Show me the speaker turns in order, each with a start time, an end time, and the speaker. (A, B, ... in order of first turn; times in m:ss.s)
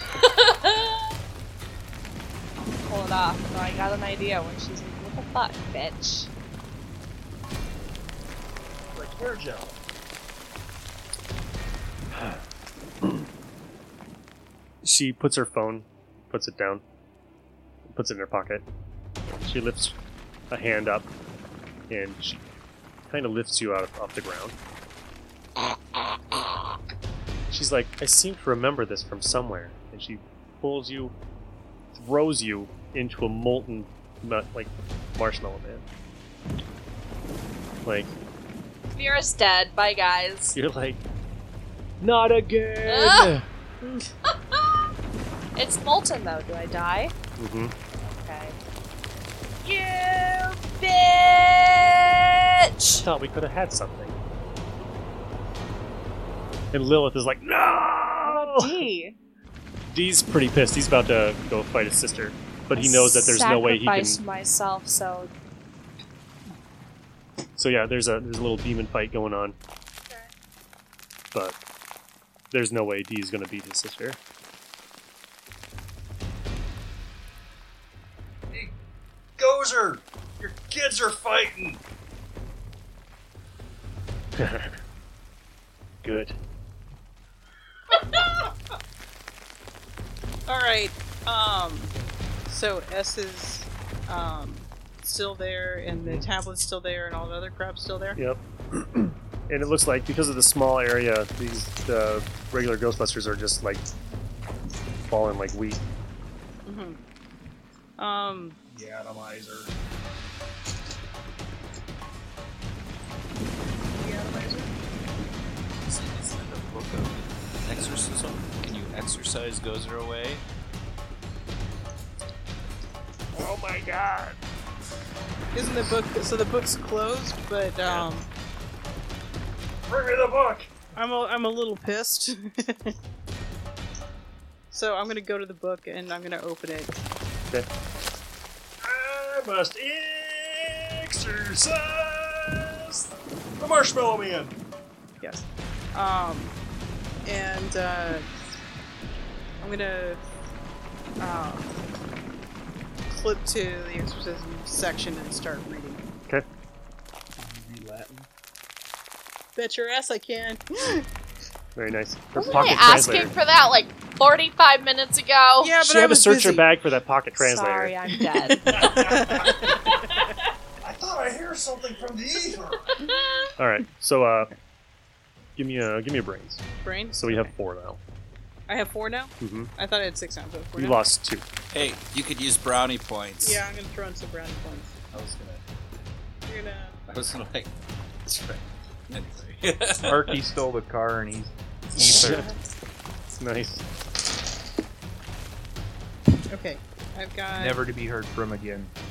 0:00.2-0:01.0 A
0:02.7-0:06.3 A
0:08.9-0:09.8 B
0:14.8-0:16.8 C
0:17.9-0:18.6 C
0:19.2-0:19.9 C
0:20.5-0:21.1 C
0:21.9-0:22.4 C
0:23.1-0:24.6 C
0:27.5-0:31.1 C
0:31.9-0:35.8 C
0:37.8-0:38.1 C
0:38.9-0:40.6 A
0:40.5-0:41.0 C
0:42.0-0:44.0 C
0:42.8-0:43.3 A
0:44.3-0:44.9 A
0:45.6-0:47.1 A
0:47.4-0:47.7 C
0:48.0-0:48.6 A
0:49.6-0:53.0 A
0:53.0-0:54.2 C
0:56.7-0:58.8 C
0:58.2-0:59.2 A
0:59.9-1:04.2 C
1:02.7-1:05.3 A
1:07.6-1:09.6 C
1:12.5-1:14.2 C
1:19.4-1:21.8 B
1:24.4-1:24.8 C
1:26.0-1:26.3 C
1:30.5-1:31.9 D
1:32.5-1:38.2 D
1:36.0-1:36.2 C
1:38.2-1:43.8 C
1:45.0-1:45.8 C
1:46.6-1:47.0 D
1:48.0-1:48.6 D
1:48.7-1:49.7 B
1:54.0-1:54.7 D
1:55.8-2:00.4 E
2:03.4-2:04.3 B
2:05.5-2:08.2 D
2:07.8-2:08.1 E
2:09.9-2:10.8 B
2:10.9-2:12.9 D
2:14.7-2:16.9 D
2:18.8-2:23.1 B
2:23.6-2:24.5 B
2:25.2-2:26.5 D
2:27.2-2:28.2 D
2:29.6-2:30.2 D
2:31.2-2:31.7 D
2:33.1-2:36.0 D
2:37.4-2:38.3 B
2:39.6-2:41.0 D
2:41.8-2:43.3 C
2:42.3-2:45.7 A
2:45.6-2:46.7 D
2:45.8-2:48.0 C
2:47.3-2:48.6 A
2:48.3-2:49.5 D
2:48.7-2:50.2 B
2:50.8-2:53.0 B
2:52.9-2:53.5 A
2:53.6-2:54.5 C
2:55.6-2:58.0 C
2:56.8-2:57.5 D
2:58.7-3:01.0 D
2:59.4-2:59.7 C
3:00.8-3:01.4 C
3:01.7-3:03.6 E
3:03.4-3:04.9 D
3:05.1-3:05.6 E
3:06.4-3:07.0 D
3:07.1-3:07.7 E
3:08.2-3:10.4 E
3:10.0-3:12.4 F
3:12.0-3:12.5 C
3:13.4-3:13.8 C
3:16.5-3:17.8 D
3:17.6-3:18.9 F